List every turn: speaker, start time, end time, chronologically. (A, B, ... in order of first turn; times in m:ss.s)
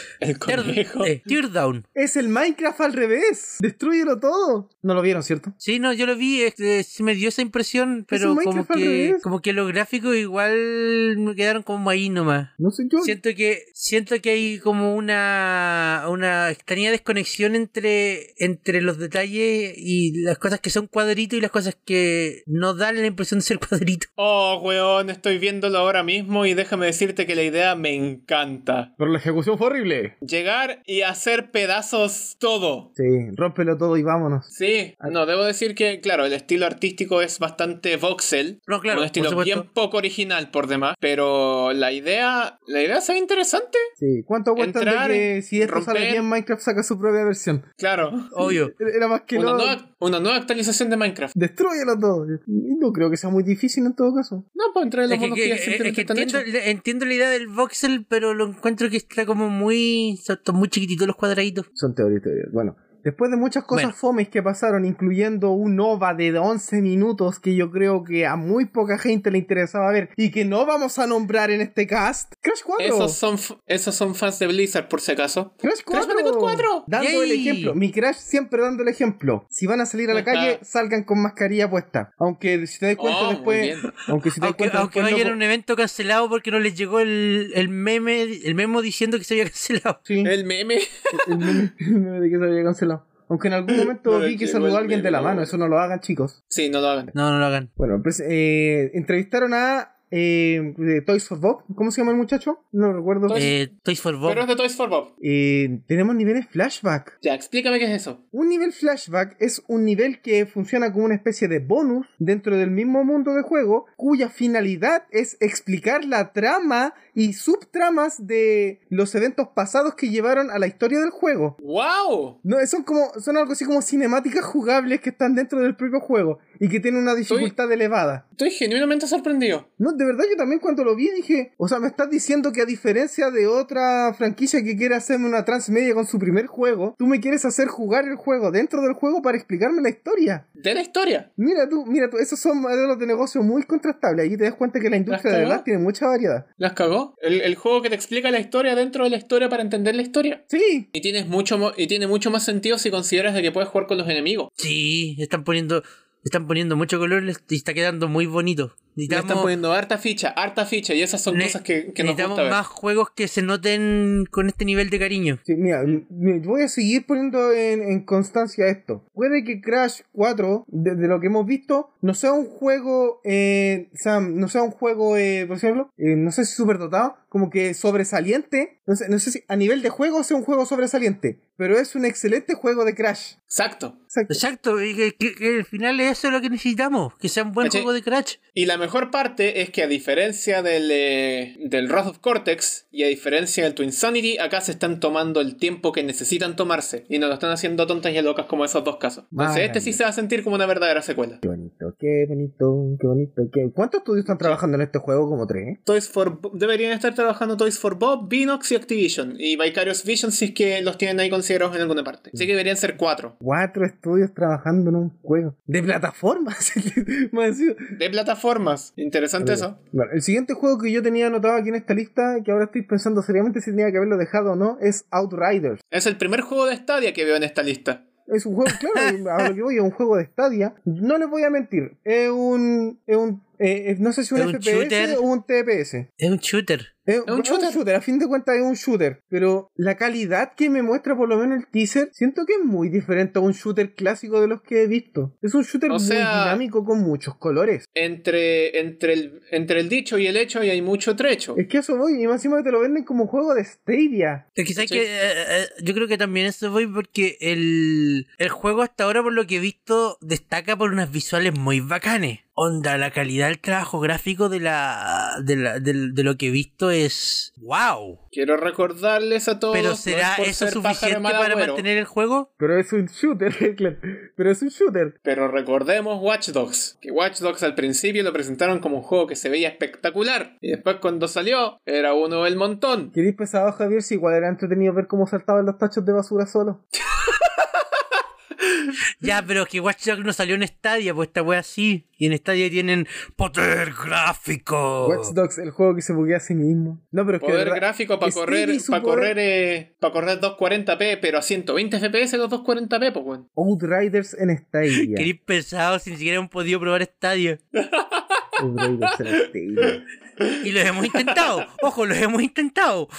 0:00.2-0:01.2 A
0:00.5-0:01.8 B
0:01.9-0:05.5 C
0:05.6-0:24.1 B
0:08.1-0:09.2 C
0:12.6-0:13.2 C
0:24.2-0:28.9 A
0:29.0-0:30.1 C
0:30.2-0:32.9 A
0:33.0-0:34.5 C
0:34.5-0:43.9 A
0:38.7-0:39.6 B
0:44.0-0:47.6 C
0:44.6-0:46.2 A
0:47.8-0:48.3 A
0:48.3-0:48.7 B
0:48.5-0:49.8 C
0:49.3-0:51.3 A
0:51.3-0:54.4 C
0:54.5-0:56.4 A
0:55.1-1:01.7 B
1:01.8-1:13.2 C
1:12.8-1:16.8 A
1:15.6-1:25.4 C
1:17.0-1:17.7 B
1:20.1-1:20.6 A
1:23.0-1:24.0 A
1:24.4-1:30.0 B
1:30.0-1:30.3 C
1:30.2-1:31.7 A
1:31.1-1:36.4 C
1:33.7-1:35.5 A
1:36.5-1:37.1 A
1:37.1-1:37.7 B
1:37.8-1:43.5 C
1:43.2-1:43.6 A
1:43.3-1:44.4 B
1:44.2-1:45.1 A
1:45.2-1:47.1 C
1:47.2-1:48.2 A
1:48.3-2:01.5 C
2:01.6-2:02.4 A
2:02.4-2:08.2 C
2:07.3-2:07.5 A
2:08.4-2:09.7 A
2:09.8-2:20.4 C
2:20.6-2:21.3 A
2:21.4-2:26.4 C
2:25.1-2:25.6 A
2:26.6-2:30.4 A
2:30.5-2:30.9 C
2:30.9-2:34.5 A
2:34.6-2:39.5 B
2:39.1-2:42.6 A
2:41.3-2:45.4 B
2:45.5-3:03.3 C
3:03.5-3:04.0 A
3:04.1-3:04.4 C
3:04.3-3:08.4 B
3:07.6-3:07.9 A
3:08.5-3:21.4 A
3:19.3-3:20.0 C
3:21.4-3:25.8 C
3:24.2-3:24.6 A
3:25.8-3:33.3 A
3:33.4-3:37.9 C
3:37.9-3:39.7 A
3:39.4-3:45.8 C
3:45.9-3:48.0 A
3:48.3-3:56.1 C
3:48.7-3:49.2 B
3:54.3-3:55.2 B
3:56.2-3:56.9 B
3:57.1-4:07.8 C
3:57.3-3:57.8 A
4:05.9-4:06.6 A
4:07.9-4:11.6 A
4:11.5-4:14.4 C
4:14.6-4:28.2 B
4:14.8-4:15.0 A
4:28.3-4:31.8 A
4:29.7-4:32.5 B
4:32.6-4:35.1 C
4:35.2-4:43.1 A
4:43.1-4:46.8 C
4:47.1-4:47.8 A
4:49.2-4:55.3 B
4:55.0-4:59.3 C
4:57.4-5:03.4 A
5:03.6-5:05.3 C
5:05.0-5:07.6 B
5:07.7-5:11.8 A
5:08.6-5:10.0 C
5:10.6-5:13.1 B